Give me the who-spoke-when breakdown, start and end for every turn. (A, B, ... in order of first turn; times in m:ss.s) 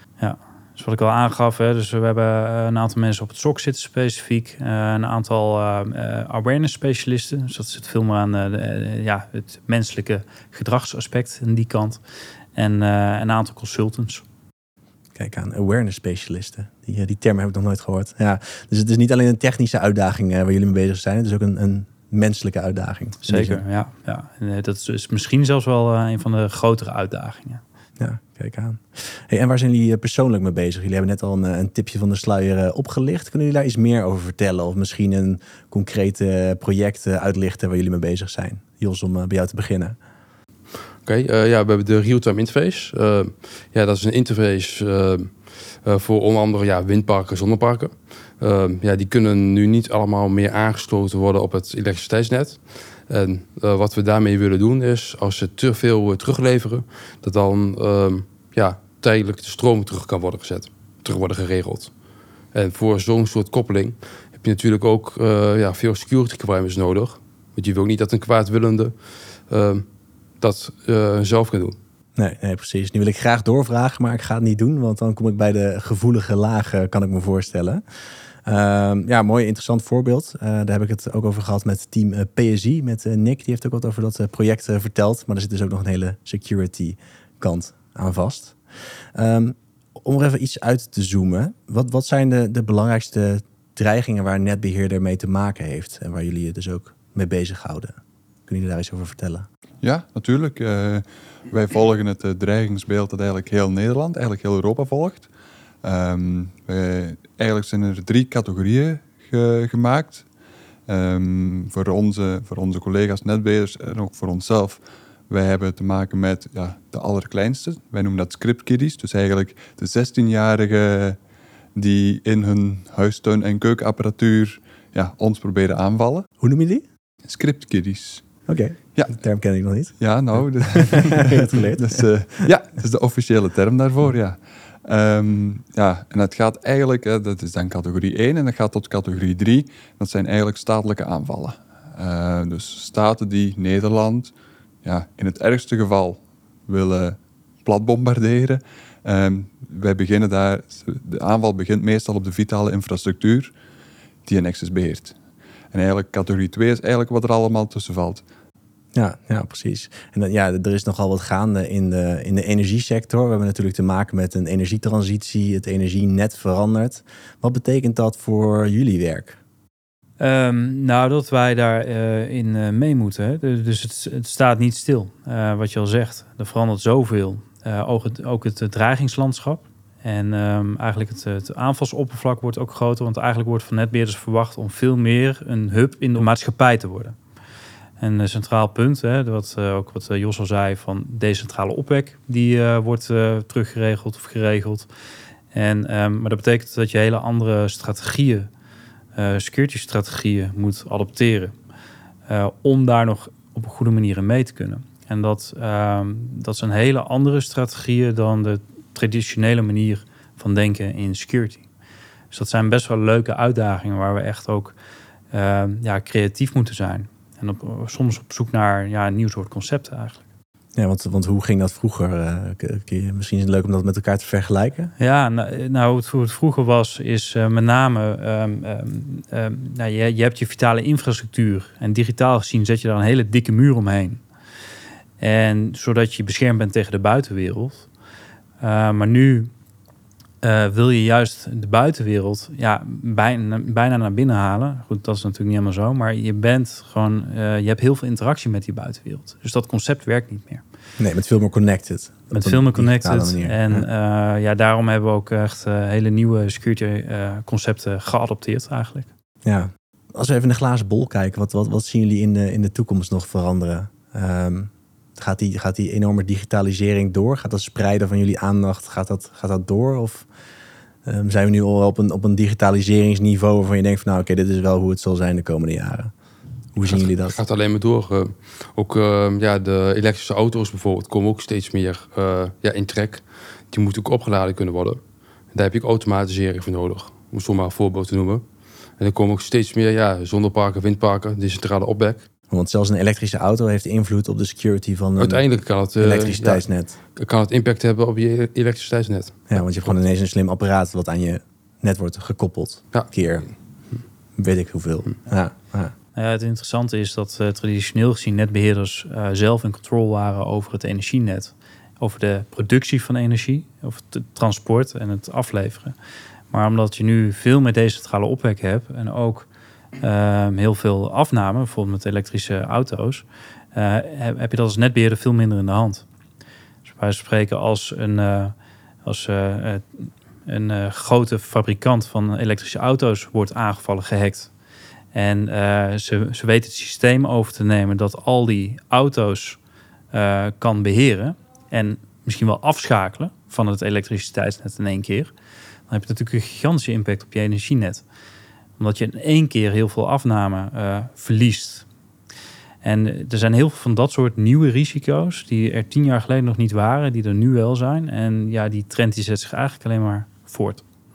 0:00.2-0:12.0 A
0:12.5-0:14.2 A
0:15.2-0:23.6 B
0:23.2-0:27.6 A
0:28.0-0:40.0 B
0:41.0-1:01.9 C
1:02.5-1:08.9 C
1:09.5-1:09.8 C
1:10.4-1:11.8 C
1:12.2-1:17.8 B
1:18.4-1:28.6 B
1:29.1-1:38.0 B
1:38.5-1:39.4 B
1:39.8-1:45.3 D
1:45.8-1:50.2 D
1:50.9-2:01.2 D
2:01.7-2:06.3 D
2:06.4-2:06.8 B
2:07.3-2:08.3 D
2:08.4-2:12.0 B
2:08.9-2:09.2 D
2:10.0-2:24.3 D
2:24.8-2:33.5 D
2:34.2-2:35.1 D
2:35.7-2:38.2 D
2:38.9-2:49.4 B
2:50.2-3:07.2 A
3:08.0-3:14.9 A
3:15.5-3:18.5 A
3:19.2-3:21.5 A
3:22.3-3:31.6 A
3:32.3-3:34.7 A
3:35.3-3:40.2 A
3:40.8-3:44.9 B
3:45.0-3:54.2 A
3:55.2-3:57.9 A
3:58.6-3:59.5 A
4:00.4-4:10.6 A
4:11.0-4:13.9 B
4:12.3-4:19.1 A
4:19.4-4:30.3 B
4:31.0-4:36.1 B
4:36.7-4:37.4 B
4:36.8-4:45.0 C
4:45.5-4:48.4 C
4:49.0-4:52.2 C
4:52.5-4:55.4 B
4:55.2-4:59.9 C
4:56.0-4:56.9 B
4:59.5-5:03.5 B
5:02.9-5:04.0 C
5:04.4-5:05.9 B
5:06.1-5:16.0 A
5:16.5-5:19.5 A
5:20.0-5:26.0 A
5:26.8-5:34.5 A
5:35.1-5:39.6 A
5:40.1-5:45.3 A
5:45.9-5:48.0 A
5:48.8-5:51.8 A
5:52.8-6:00.8 A